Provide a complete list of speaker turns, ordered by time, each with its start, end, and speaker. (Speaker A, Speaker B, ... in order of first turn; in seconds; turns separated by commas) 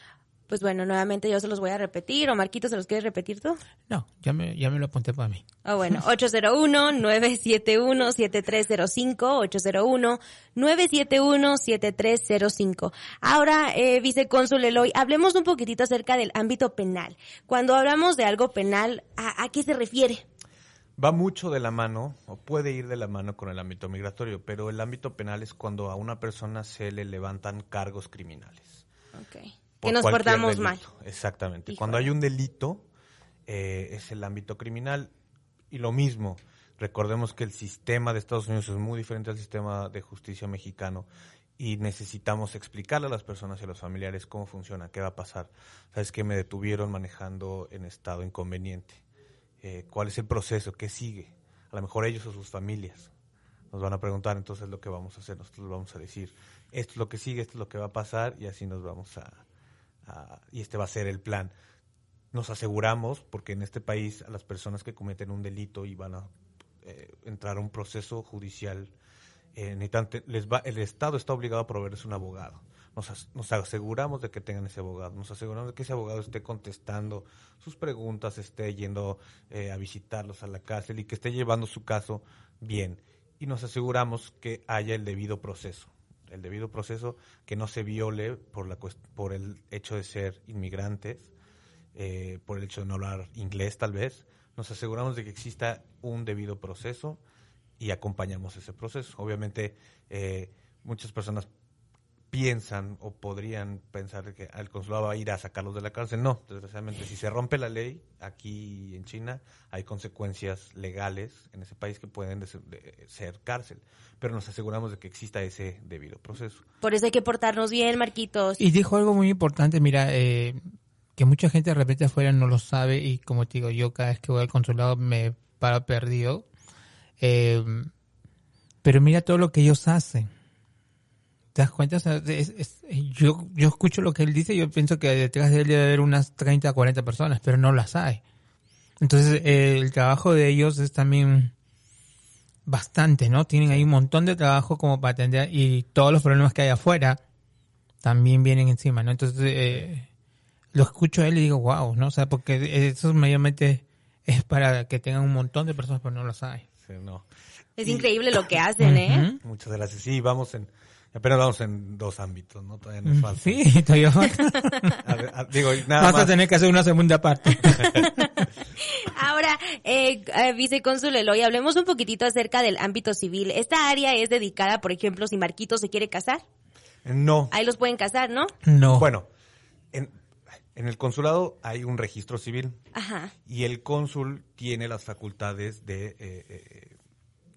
Speaker A: 0.5-3.6, Speaker B: 3.9-5.4, Speaker A: 5.6-20.2, Speaker C: 21.0-28.8, Speaker A: 29.1-30.8, Speaker C: 29.8-32.9, Speaker A: 31.7-32.0, Speaker C: 33.5-35.1, Speaker C: 35.7-41.1, Speaker C: 41.6-49.0, Speaker C: 49.6-53.1, Speaker C: 53.7-59.4, Speaker C: 60.0-61.5, Speaker C: 62.3-68.9, Speaker C: 69.5-91.3, Speaker C: 91.9-97.2, Speaker C: 97.8-101.5, Speaker C: 102.3-116.6, Speaker A: 116.8-118.6, Speaker B: 118.6-120.6, Speaker B: 121.2-126.5, Speaker B: 127.2-127.9, Speaker B: 128.8-130.3, Speaker B: 131.5-138.2, Speaker B: 139.0-141.5, Speaker B: 142.7-147.2, Speaker B: 148.0-150.1, Speaker B: 150.7-156.7, Speaker C: 156.8-157.3, Speaker A: 157.8-159.2, Speaker C: 157.8-158.1, Speaker B: 158.8-159.4, Speaker C: 159.4-163.7, Speaker B: 163.1-165.0, Speaker C: 165.0-166.3, Speaker B: 165.9-168.1, Speaker A: 167.7-176.4, Speaker C: 177.0-177.5, Speaker A: 177.5-178.5, Speaker B: 178.7-179.1, Speaker C: 178.8-179.3, Speaker C: 180.7-182.8, Speaker A: 182.9-183.3, Speaker C: 183.4-187.0